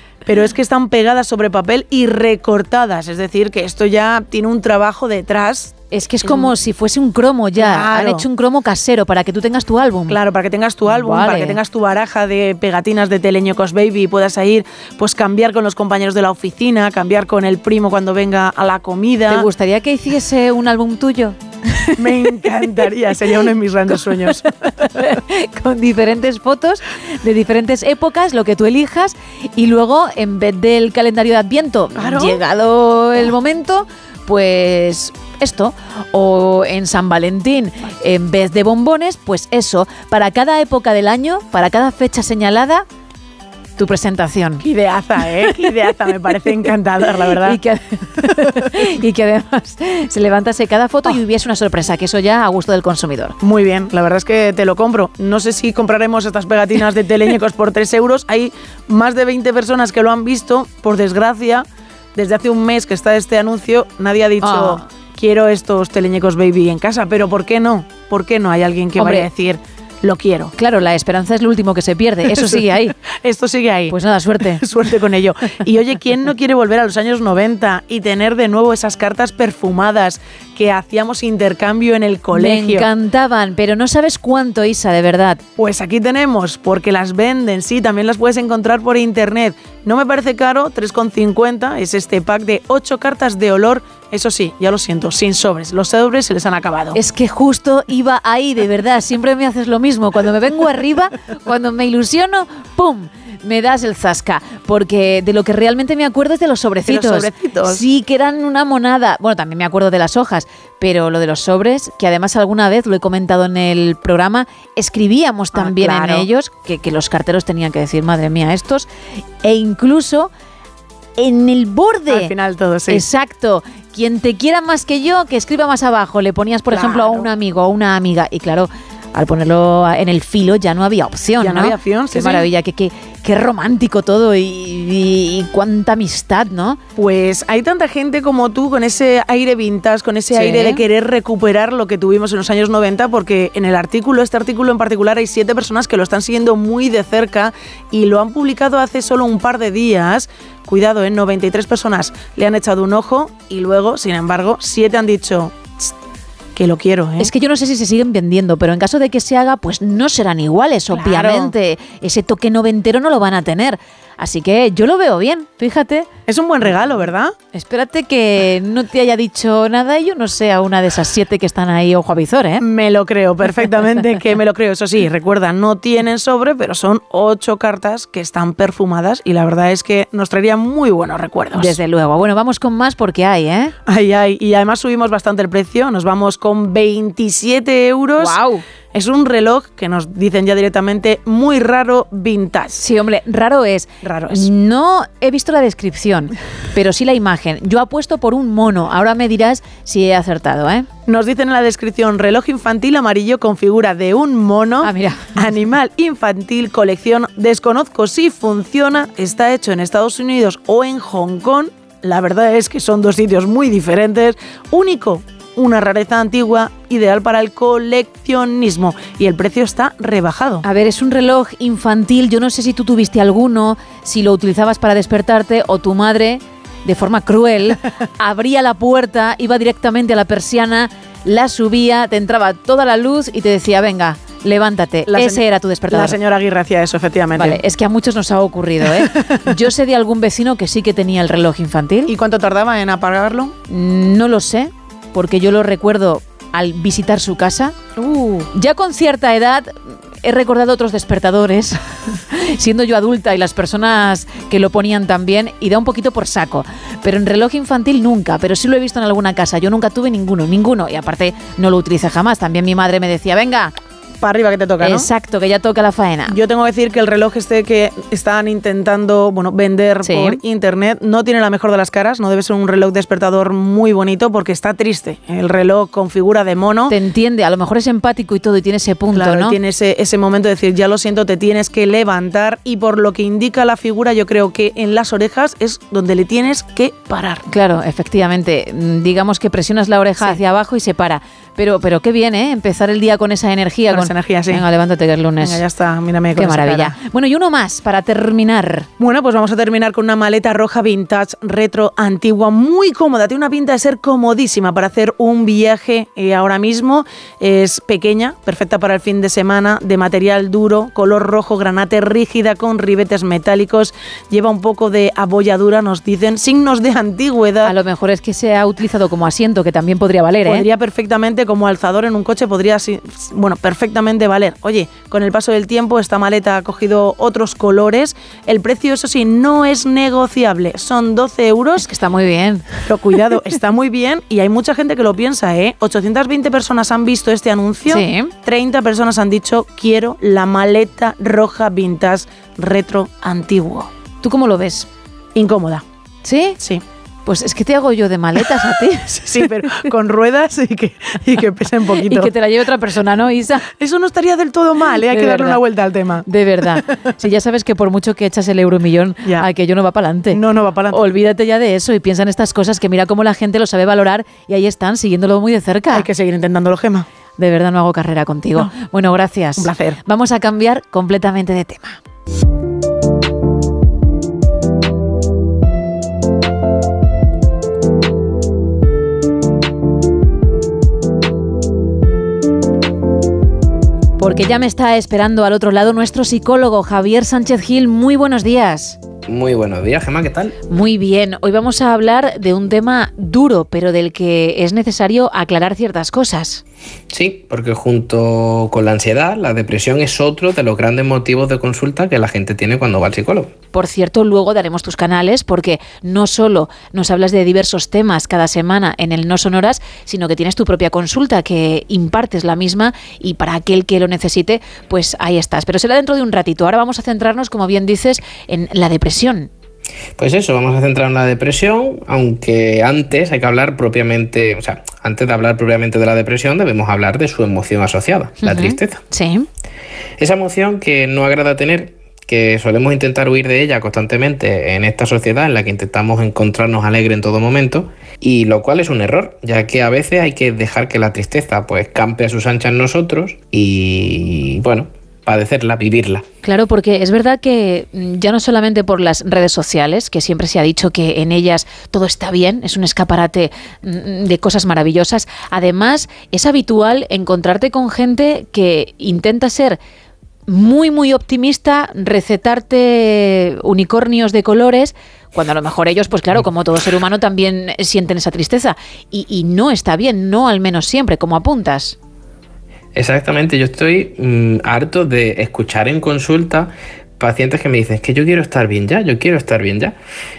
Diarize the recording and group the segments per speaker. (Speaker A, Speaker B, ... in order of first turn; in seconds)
Speaker A: 0.2-6.5, 7.6-8.2, 10.1-19.5, 22.0-24.5, 32.0-32.4, 44.6-47.6, 53.4-70.5, 72.3-74.0, 74.5-82.9, 85.6-97.0, 106.9-107.8, 115.5-116.3, 122.1-123.0, 126.7-127.3, 131.4-132.5, 137.0-155.9, 156.5-157.3, 160.9-161.5, 166.3-167.3, 172.6-181.7, 183.9-188.4, 188.9-192.8, 194.0-194.5, 201.1-220.6, 235.1-237.6, 239.0-239.4, 242.1-243.5, 248.0-248.5, 264.2-265.1, 266.3-276.9, 279.1-287.4, 293.9-294.6, 295.4-296.9, 299.0-317.7, 320.4-331.8, 332.9-343.9, 345.3-345.8, 348.6-352.3, 353.8-356.2, 360.3-361.0, 365.9-367.1, 369.6-370.0
Speaker B: 5.9-10.2, 10.8-11.6, 19.3-22.0, 23.9-42.8, 43.8-44.6, 47.4-53.4, 64.4-64.8, 69.0-69.3, 70.5-72.9, 73.9-74.6, 82.3-85.4, 96.9-118.9, 119.4-120.3, 121.2-122.3, 122.9-136.8, 140.3-140.8, 157.2-166.1, 167.5-172.6, 181.5-183.7, 188.2-188.6, 192.8-200.9, 204.8-205.3, 220.6-236.2, 237.3-242.1, 243.7-247.9, 248.5-251.8, 252.3-263.7, 264.8-266.4, 270.0-270.4, 276.9-279.6, 287.5-295.6, 296.4-298.9, 317.6-320.6, 331.8-332.7, 337.9-338.3, 344.2-344.9, 346.2-346.6, 347.2-349.2, 352.0-353.7, 354.9-355.6, 356.2-366.1, 367.4-372.0, 384.2-389.0, 390.7-396.6, 403.7-419.5, 428.4-429.4, 446.4-459.8, 460.5-471.9
Speaker C: 389.3-390.5, 397.1-403.5, 420.2-429.0, 430.2-446.2, 472.9-479.9